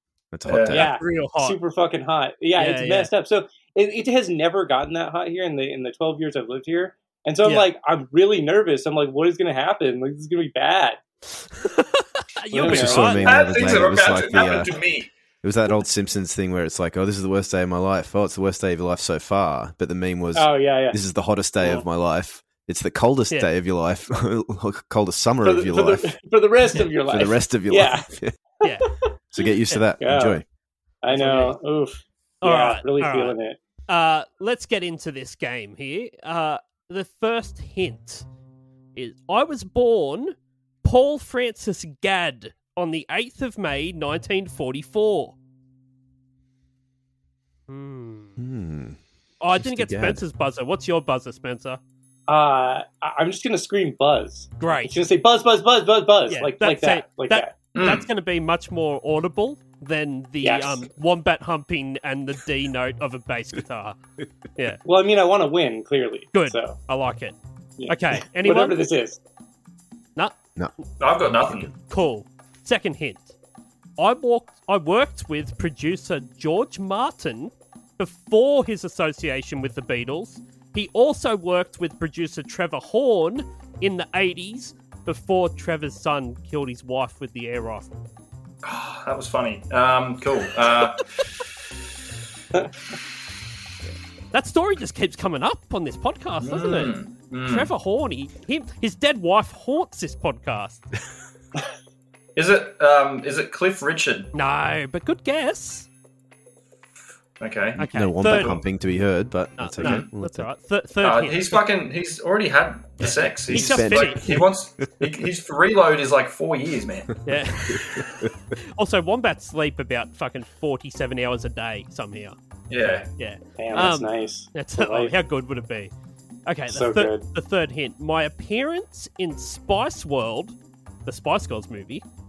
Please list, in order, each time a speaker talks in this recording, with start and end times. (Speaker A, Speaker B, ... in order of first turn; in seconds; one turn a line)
Speaker A: 0.3-0.9
Speaker B: 0.5-0.8
Speaker C: 0.7-1.6
Speaker D: 0.7-11.0
Speaker C: 2.6-3.1
Speaker C: 7.4-7.7
Speaker C: 11.6-13.3
Speaker D: 12.5-13.3
Speaker A: 12.6-14.8
Speaker B: 13.0-15.1
Speaker A: 15.4-26.1
Speaker D: 20.3-21.0
Speaker D: 25.4-28.1
Speaker A: 26.9-28.3
Speaker A: 29.3-30.4
Speaker D: 30.0-30.4
Speaker D: 31.0-33.6
Speaker C: 31.1-31.5
Speaker C: 32.4-33.3
Speaker C: 33.9-38.2
Speaker C: 38.9-45.4
Speaker C: 47.7-48.3
Speaker A: 48.4-49.0
Speaker C: 49.4-51.8
Speaker A: 49.5-50.2
Speaker D: 52.3-57.5
Speaker C: 54.6-54.9
Speaker C: 56.3-64.0
Speaker B: 57.7-58.0
Speaker D: 60.4-60.8
Speaker C: 64.5-64.8
Speaker D: 64.8-66.8
Speaker C: 66.3-67.3
Speaker D: 67.8-69.2
Speaker C: 67.9-68.8
Speaker B: 71.0-71.7
Speaker C: 71.7-73.3
Speaker C: 74.0-87.9
Speaker B: 88.6-91.0
Speaker C: 93.9-100.8
Speaker B: 96.4-97.7
Speaker B: 102.3-104.3
Speaker C: 104.3-105.9
Speaker B: 107.4-108.6
Speaker A: 107.8-110.5
Speaker C: 107.8-108.6
Speaker C: 109.6-111.6
Speaker B: 109.8-110.0
Speaker B: 111.0-117.1
Speaker C: 113.0-114.4
Speaker A: 113.5-114.5
Speaker C: 117.2-125.9
Speaker B: 122.7-123.1
Speaker D: 123.6-125.1
Speaker C: 126.5-132.0
Speaker D: 126.7-127.2